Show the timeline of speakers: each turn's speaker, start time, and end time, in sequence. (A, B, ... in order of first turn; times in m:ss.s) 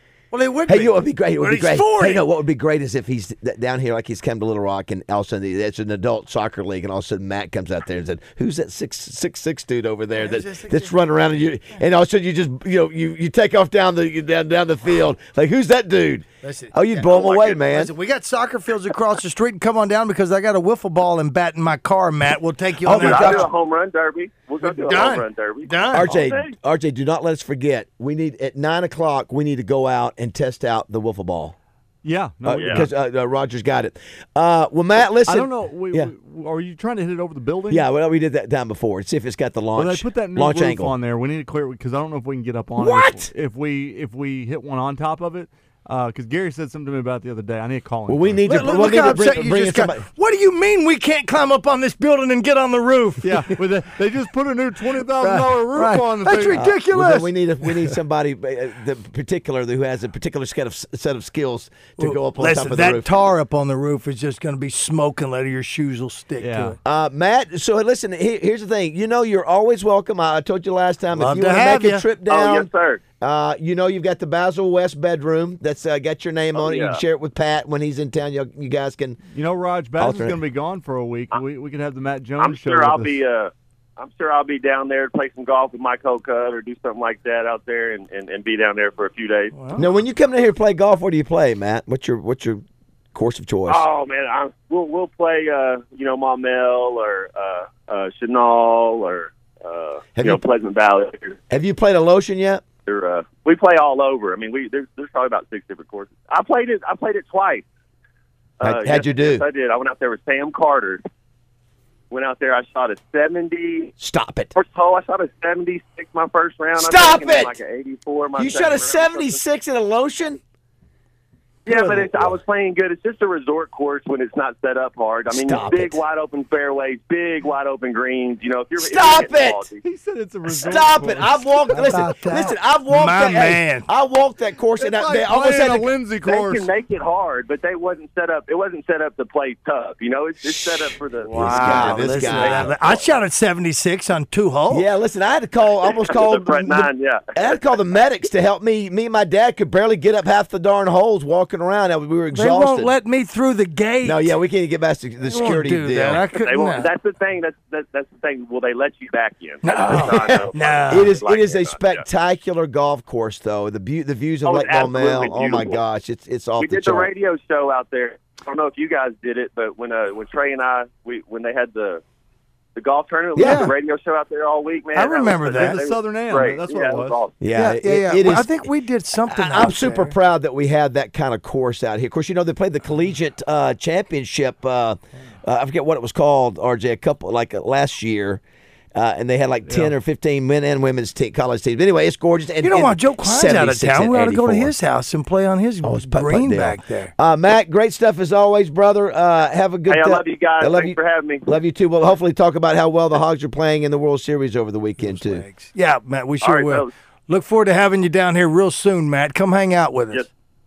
0:00.3-0:02.2 A
0:00.7-0:17.9 B
0:10.2-0:10.9 A
0:16.4-0:23.5 A
0:17.1-0:17.5 C
0:22.8-0:23.5 B
0:22.9-0:26.5 C
0:24.7-0:26.2 A
0:25.9-0:31.5 B
0:32.0-0:32.9 D
0:32.4-0:36.1 B
0:32.5-0:32.9 C
0:35.2-0:37.9 D
0:37.7-0:40.9 B
0:39.8-0:48.4 D
0:42.8-0:43.2 B
0:48.1-0:50.0 B
0:48.4-0:53.5 A
0:53.2-0:56.7 D
0:55.2-0:58.0 A
0:56.5-1:03.2 B
1:02.0-1:06.8 A
1:06.4-1:06.8 D
1:06.8-1:12.7 B
1:11.1-1:12.0 A
1:12.3-1:13.0 C
1:13.2-1:19.2 B
1:16.5-1:17.0 C
1:19.3-1:23.2 D
1:20.0-1:20.4 B
1:22.4-1:29.5 C
1:29.5-1:29.8 A
1:29.8-1:32.6 B
1:33.1-1:33.8 B
1:33.7-1:41.4 C
1:40.2-1:40.4 B
1:41.5-1:42.6 B
1:42.8-1:47.6 C
1:48.6-1:51.0 C
1:48.6-1:49.4 B
1:52.1-1:53.9 C
1:54.0-1:54.6 B
1:54.5-1:59.4 C
1:56.8-1:57.6 B
1:58.4-2:00.4 B
2:01.6-2:02.4 B
2:01.6-2:09.8 C
2:05.3-2:06.0 B
2:08.8-2:09.6 B
2:09.8-2:12.2 D
2:10.4-2:15.9 B
2:11.7-2:13.8 A
2:14.8-2:16.7 D
2:16.2-2:23.2 C
2:21.3-2:24.9 A
2:21.3-2:22.7 B
2:24.7-2:32.9 B
2:26.0-2:27.7 C
2:32.3-2:34.4 A
2:34.0-2:36.2 B
2:35.2-2:36.9 A
2:36.3-2:42.0 C
2:39.6-2:41.1 A
2:39.9-2:47.1 B
2:44.4-2:45.8 C
2:46.6-2:52.0 C
2:52.7-2:57.3 C
2:53.3-2:53.6 B
2:53.4-2:53.7 A
2:54.9-2:55.8 A
2:55.5-2:57.2 D
2:57.4-2:58.5 B
2:57.5-3:00.1 A
2:59.3-3:08.4 B
3:08.9-3:14.7 B
3:09.6-3:09.9 D
3:12.6-3:17.1 A
3:15.8-3:25.4 B
3:19.8-3:21.5 C
3:25.0-3:30.2 A
3:26.4-3:26.9 C